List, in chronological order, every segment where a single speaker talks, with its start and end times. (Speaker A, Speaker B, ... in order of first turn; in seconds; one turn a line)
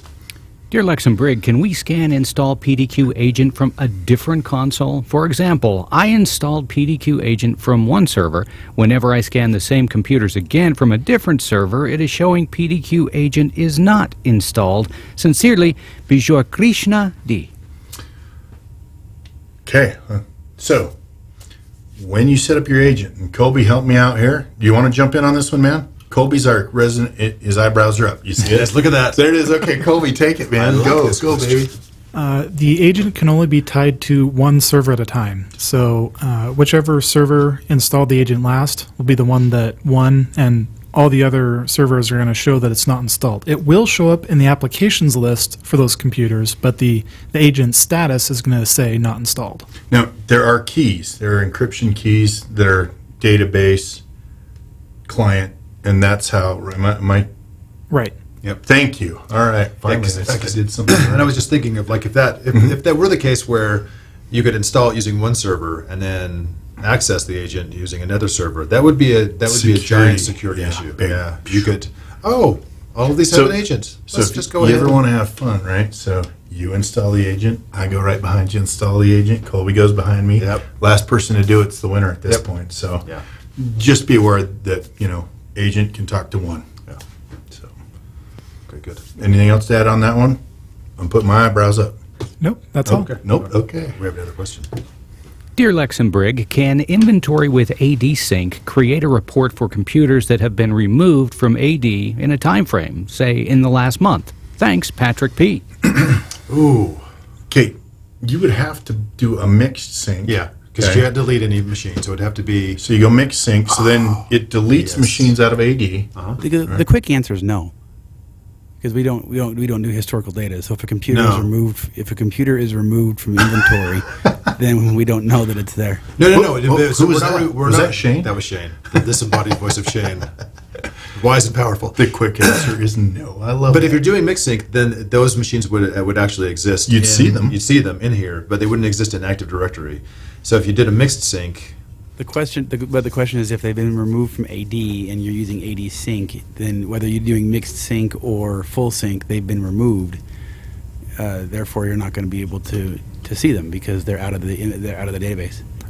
Speaker A: 0.7-17.5
Speaker B: 19.6-20.9
Speaker B: 22.0-31.7
Speaker C: 28.4-29.2
Speaker C: 30.6-31.7
Speaker D: 32.1-49.7
Speaker B: 49.9-54.0
Speaker B: 55.0-57.3
Speaker D: 57.9-58.1
Speaker B: 58.6-61.4
Speaker C: 59.8-75.0
Speaker B: 69.5-71.7
Speaker B: 73.3-86.7
Speaker C: 80.4-80.6
Speaker C: 88.7-89.0
Speaker B: 89.2-90.4
Speaker B: 91.0-92.0
Speaker D: 92.4-93.1
Speaker B: 92.8-94.0
Speaker C: 92.9-94.7
Speaker A: 95.5-105.6
Speaker C: 106.5-107.1
Speaker B: 107.5-111.0
Speaker C: 110.2-112.8
Speaker B: 112.8-116.1
Speaker C: 113.7-115.3
Speaker E: 116.4-117.7
Speaker E: 118.8-126.1
Speaker C: 121.1-121.5
Speaker C: 126.2-130.3
Speaker B: 126.3-128.3
Speaker C: 131.0-132.7
Speaker B: 131.9-134.0
Speaker C: 133.7-141.8
Speaker B: 136.9-137.6
Speaker E: 142.2-150.2
Speaker E: 151.2-155.6